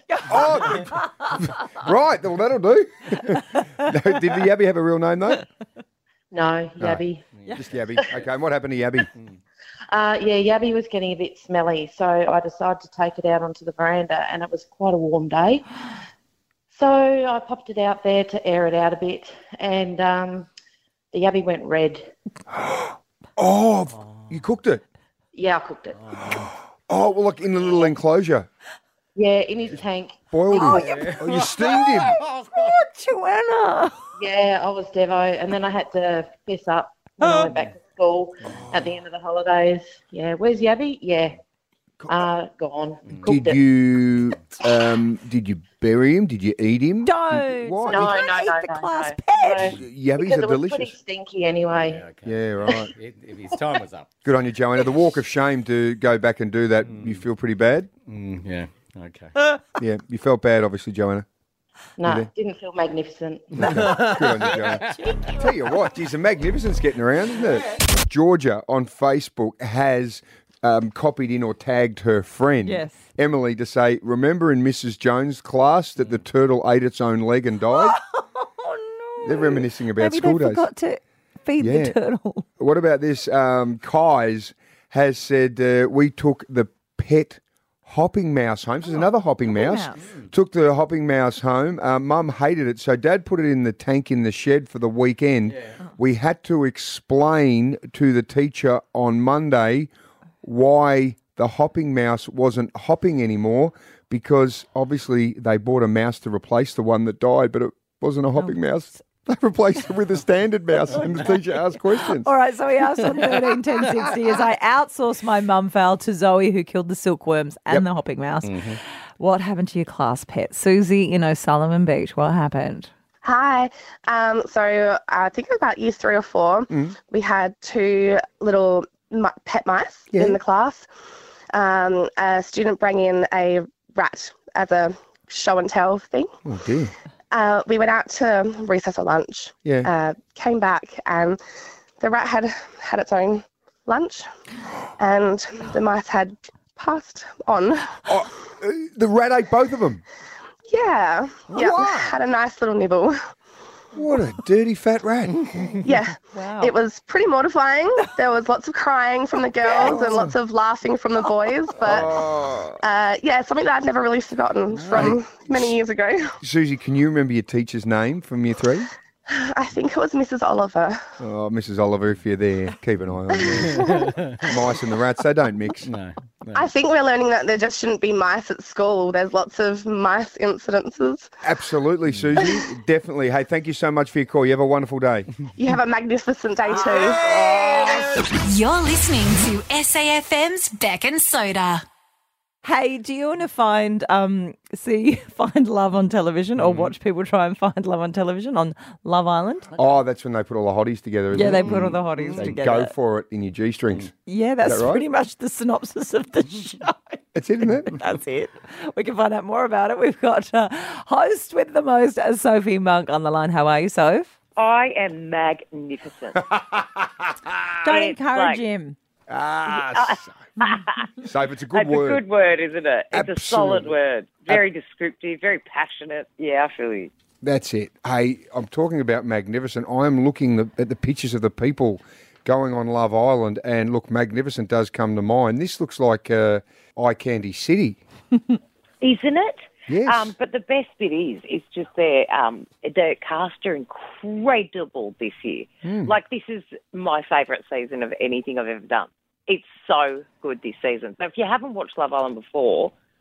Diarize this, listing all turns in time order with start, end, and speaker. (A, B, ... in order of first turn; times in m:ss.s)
0:00.1-0:01.5 A
0:00.3-0:05.4 B
0:06.3-0:07.2 C
0:06.8-0:09.1 B
0:09.9-0:15.7 C
0:16.7-0:20.5 C
0:21.1-0:22.1 C
0:22.5-0:24.8 B
0:24.0-0:24.2 D
0:25.3-0:26.0 C
0:26.0-0:26.5 D
0:26.9-0:28.5 B
0:29.2-0:30.8 C
0:30.3-0:32.2 B
0:30.5-0:31.2 A
0:30.8-0:32.8 D
0:31.9-0:34.0 A
0:34.2-0:41.4 C
0:37.2-0:37.5 A
0:42.0-0:42.3 B
0:42.1-0:43.6 C
0:43.2-0:48.2 B
0:47.0-0:49.8 A
0:47.9-0:52.1 C
0:49.7-0:51.0 B
0:51.7-0:54.1 D
0:52.2-0:52.9 B
0:54.2-0:57.9 B
0:56.8-0:57.2 D
0:58.1-0:59.3 D
0:59.8-1:01.3 B
1:02.0-1:04.0 C
1:02.0-1:02.3 B
1:03.6-1:18.0 B
1:03.6-1:05.0 D
1:05.1-1:05.5 A
1:12.6-1:13.0 A
1:17.7-1:22.5 A
1:19.2-1:20.7 B
1:21.6-1:22.0 B
1:22.6-1:39.9 B
1:28.9-1:30.0 A
1:40.4-1:52.3 B
1:50.9-1:51.3 A
1:52.1-2:02.9 A
1:58.4-1:58.8 D
2:03.2-2:10.9 E
2:06.7-2:07.0 B
2:10.1-2:10.4 B
2:11.5-2:16.3 E
2:16.4-2:16.9 B
2:17.3-2:21.4 E
2:19.6-2:19.9 B
2:22.0-2:24.2 E
2:25.0-2:28.0 E
2:28.1-2:30.0 B
2:30.7-2:33.2 E
2:31.5-2:32.2 B
2:33.9-2:35.7 B
2:35.8-2:42.1 E
2:36.3-2:36.7 A
2:39.7-2:40.2 A
2:39.8-2:40.3 B
2:41.8-2:42.8 B
2:42.8-2:46.3 E
2:44.8-2:45.1 D
2:44.9-2:45.7 B
2:46.4-2:48.9 B
2:49.3-2:51.0 E
2:51.2-2:55.9 B
2:53.6-2:54.4 D
2:55.8-2:56.7 D
2:56.5-3:01.3 E
3:01.4-3:05.3 B
3:05.6-3:07.2 E
3:07.3-3:07.9 B
3:08.3-3:11.8 F
3:12.6-3:19.7 A
3:16.6-3:16.9 D
3:19.8-3:25.0 B
3:21.3-3:22.9 A
3:21.5-3:22.5 D
3:24.3-3:34.3 A
3:27.3-3:27.9 B
3:34.6-3:36.4 G
3:37.8-3:39.0 A
3:37.9-3:38.6 G
3:39.3-3:40.4 B
3:39.7-3:41.1 G
3:41.2-3:42.2 B
3:41.7-3:47.1 G
3:43.1-3:44.0 B
3:47.4-3:58.0 B
3:59.0-4:12.9 G
3:59.9-4:00.3 B
4:05.8-4:06.2 B